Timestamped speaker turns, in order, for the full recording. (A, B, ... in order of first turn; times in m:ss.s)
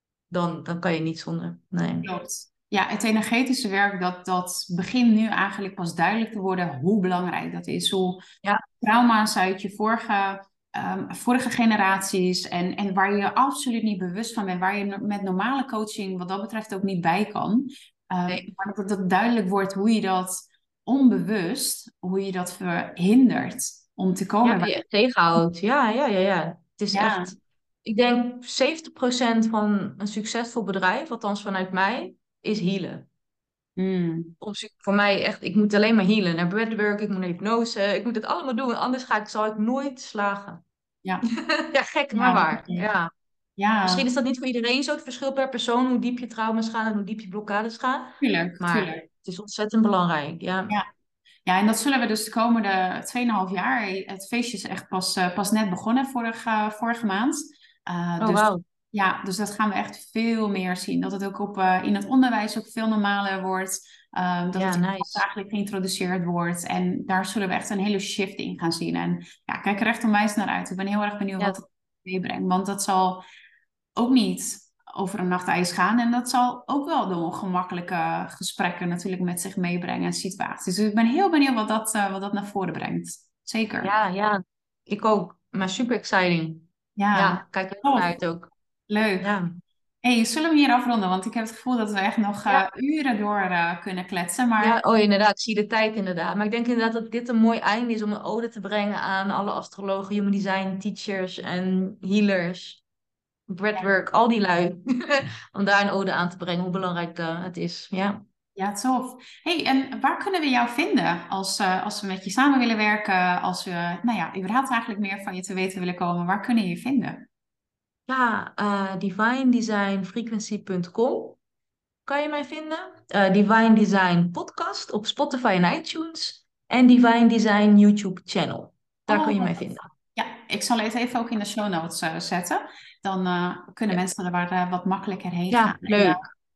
0:00.3-0:02.1 A
0:02.0-0:24.8 B
0:24.4-0:33.1 A
0:26.9-0:27.4 B
0:33.8-0:34.4 B
0:34.4-0:40.6 A
0:41.3-0:43.1 A
0:42.1-0:42.9 B
0:43.6-0:44.1 B
0:43.8-0:50.8 A
0:48.2-0:49.1 B
0:51.5-1:13.2 B
0:58.2-0:58.6 A
1:04.6-1:05.2 A
1:14.0-1:24.0 B
1:23.8-1:28.5 A
1:27.0-1:28.2 B
1:28.9-1:29.3 B
1:29.2-1:29.5 A
1:30.0-1:34.8 B
1:34.6-1:42.8 A
1:43.5-1:48.2 A
1:48.6-1:57.3 B
1:58.1-2:01.4 A
2:02.1-2:09.8 A
2:09.1-2:16.2 B
2:15.5-2:16.2 A